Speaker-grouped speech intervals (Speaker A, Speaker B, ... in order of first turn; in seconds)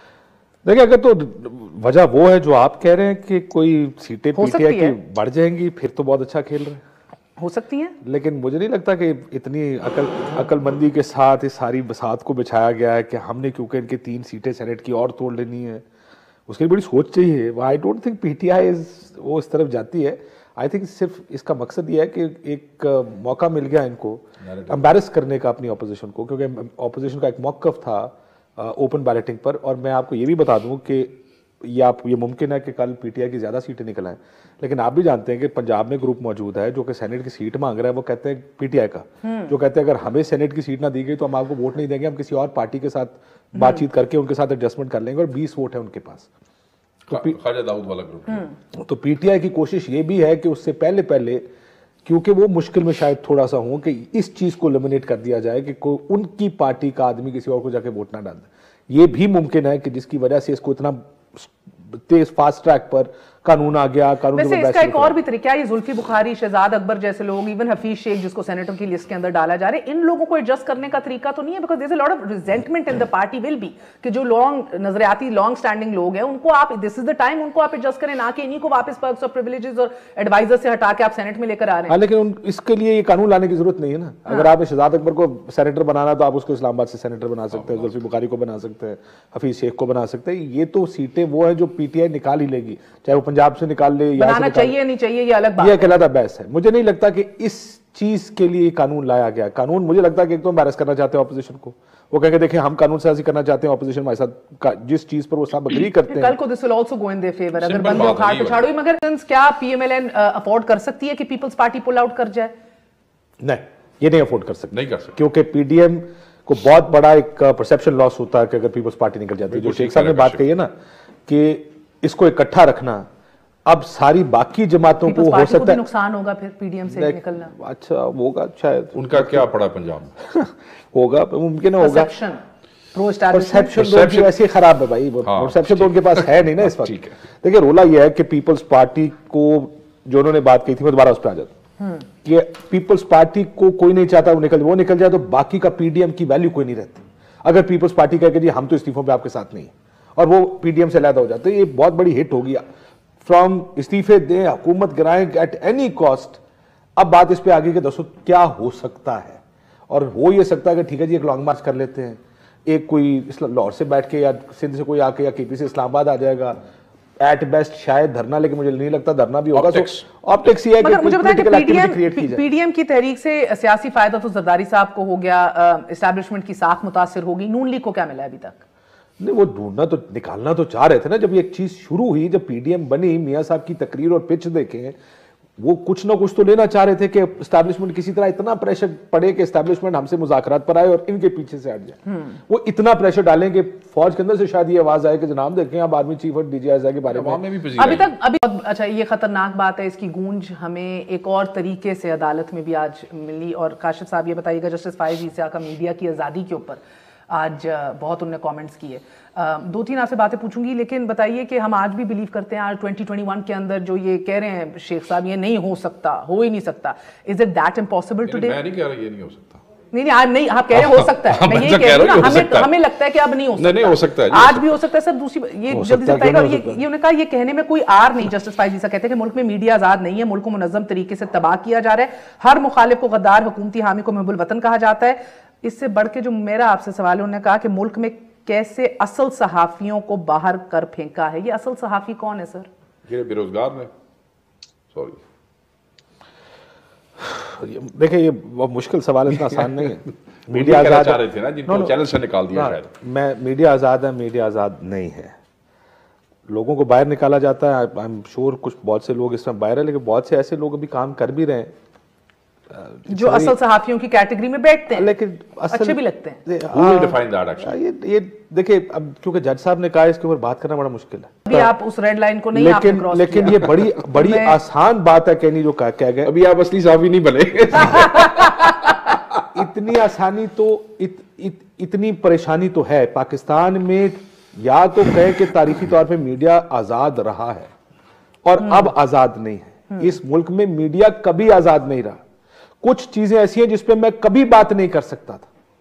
Speaker A: 0.7-6.8, 8.0-15.8, 16.5-46.3, 47.1-47.4, 48.7-51.4, 52.0-65.2, 81.9-94.8, 95.6-106.4, 113.4-120.7, 121.3-123.1, 123.7-125.8, 126.9-129.5, 130.2-132.1, 133.3-141.5, 142.2-152.6, 153.2-156.4, 157.0-166.6, 167.2-172.4, 179.2-185.0, 185.6-197.4, 225.7-226.8, 247.2-252.0, 252.5-255.3, 256.5-261.7, 262.7-263.6, 264.9-271.7, 272.5-276.3, 279.5-287.7, 288.4-292.2, 292.8-295.5
Speaker B: 4.3-5.0, 7.4-8.0, 39.2-39.5, 43.6-43.8, 64.3-82.0, 94.2-95.9, 106.0-112.5, 125.0-127.5, 131.8-133.8, 170.8-178.6, 197.8-218.6, 219.9-242.7, 263.1-265.1, 265.7-266.4, 271.5-274.6, 288.6-288.9
Speaker C: 24.5-24.8, 47.1-48.5, 107.6-108.7, 114.7-115.1, 119.5-120.4, 128.9-130.1, 133.7-134.4, 135.2-137.1, 169.5-170.1, 197.1-198.1, 218.3-219.6, 220.7-222.7, 223.6-224.8, 243.1-243.9, 244.9-245.2, 250.5-252.9, 266.7-267.8, 276.2-279.4